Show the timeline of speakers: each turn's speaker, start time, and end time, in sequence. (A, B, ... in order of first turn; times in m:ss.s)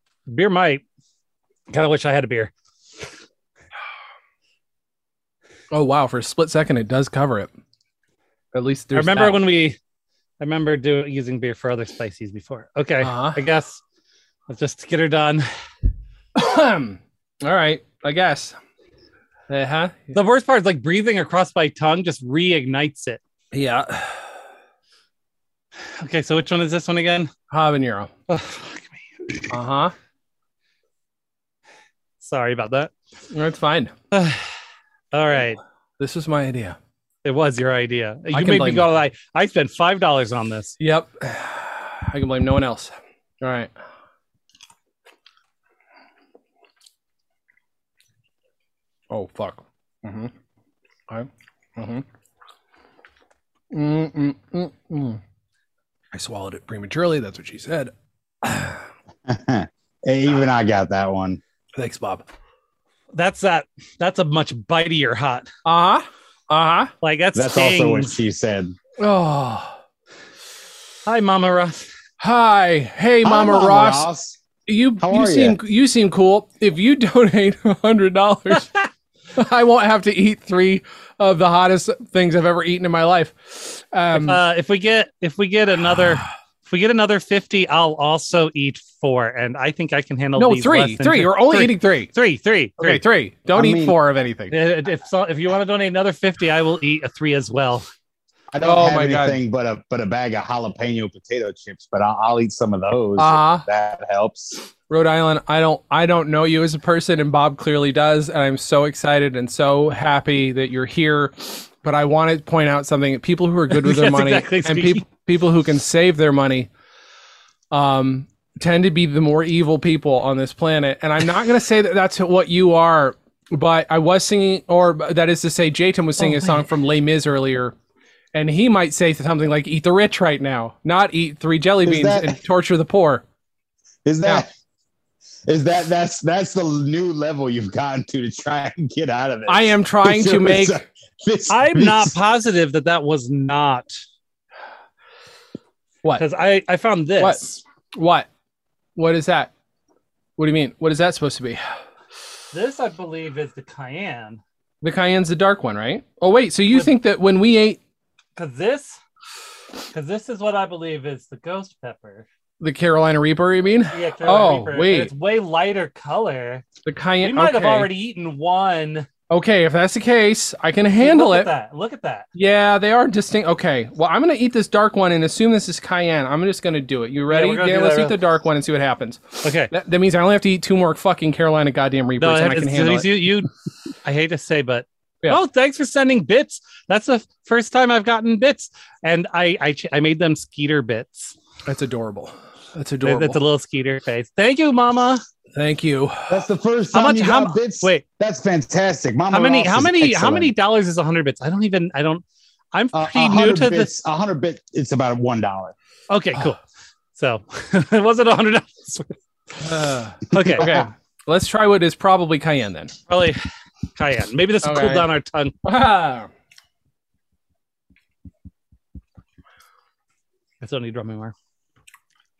0:00.3-0:00.8 A
0:01.7-0:02.5 A
0:05.7-0:07.5 B
0:08.5-0:09.4 B
0:08.9-0:09.8 A
0:10.4-0:13.8 A
0:13.0-0:13.4 B
0:14.5-0:15.5 A
0:16.3-0:18.6 B
0:19.5-0:20.1 B
0:20.1-0:23.2 A
0:23.5-0:24.2 B
0:26.0-0:27.3 A
0:27.5-0:28.1 B
0:28.3-0:29.5 A
0:29.5-0:29.9 B
0:32.2-0:32.9 A
0:33.3-0:33.9 B
0:34.1-0:34.4 A
0:35.1-0:35.6 A
0:36.0-0:36.8 B
0:37.2-0:40.8 A
0:38.3-0:38.8 B
0:40.8-0:43.7 B
0:49.1-0:50.3 B
0:51.1-0:52.0 B
0:53.7-0:55.2 B
0:56.1-0:57.9 B
0:58.4-0:58.8 B
0:59.2-1:01.4 C
1:01.8-1:02.2 B
1:03.1-1:05.5 A
1:05.6-1:06.9 B
1:07.0-1:08.2 A
1:07.3-1:08.8 C
1:09.0-1:09.7 B
1:11.0-1:11.9 A
1:12.2-1:14.1 B
1:13.2-1:14.4 C
1:14.6-1:18.8 B
1:15.0-1:15.6 C
1:19.3-1:24.4 B
1:24.1-1:33.0 A
1:30.4-1:32.1 B
1:32.8-1:34.5 B
1:33.5-1:34.0 C
1:34.5-1:37.9 A
1:38.5-1:44.6 C
1:38.6-1:39.4 B
1:43.2-1:43.6 B
1:44.9-1:56.7 B
1:53.7-1:55.0 A
1:57.7-2:07.7 B
2:06.2-2:06.6 A
2:08.3-2:13.2 B
2:11.8-2:12.4 C
2:14.0-2:14.5 C
2:15.4-2:22.2 C
2:19.5-2:20.8 B
2:21.5-2:24.0 A
2:26.2-2:27.6 A
2:27.2-2:28.3 B
2:29.0-2:29.5 B
2:30.4-2:31.6 B
2:32.5-2:34.4 A
2:34.8-2:37.8 B
2:38.4-2:39.0 A
2:39.9-2:42.3 A
2:42.6-2:45.1 B
2:43.9-2:46.6 A
2:46.8-2:47.9 B
2:47.2-2:49.1 A
2:49.3-2:51.5 B
2:51.0-2:52.3 A
2:52.3-3:03.1 B
2:57.3-2:58.1 A
2:59.4-2:59.7 A
3:02.2-3:03.5 A
3:04.0-3:11.4 A
3:11.6-3:13.4 B
3:13.0-3:15.2 A
3:15.5-3:16.4 B
3:16.3-3:20.5 C
3:16.9-3:18.0 A
3:19.3-3:23.9 A
3:22.9-3:25.7 C
3:26.1-3:26.6 A
3:27.1-3:29.2 A
3:29.6-3:32.9 B
3:30.3-3:30.8 A
3:33.1-3:33.4 A
3:34.0-3:35.6 A
3:34.6-3:35.1 B
3:35.6-3:36.3 B
3:40.6-3:41.3 A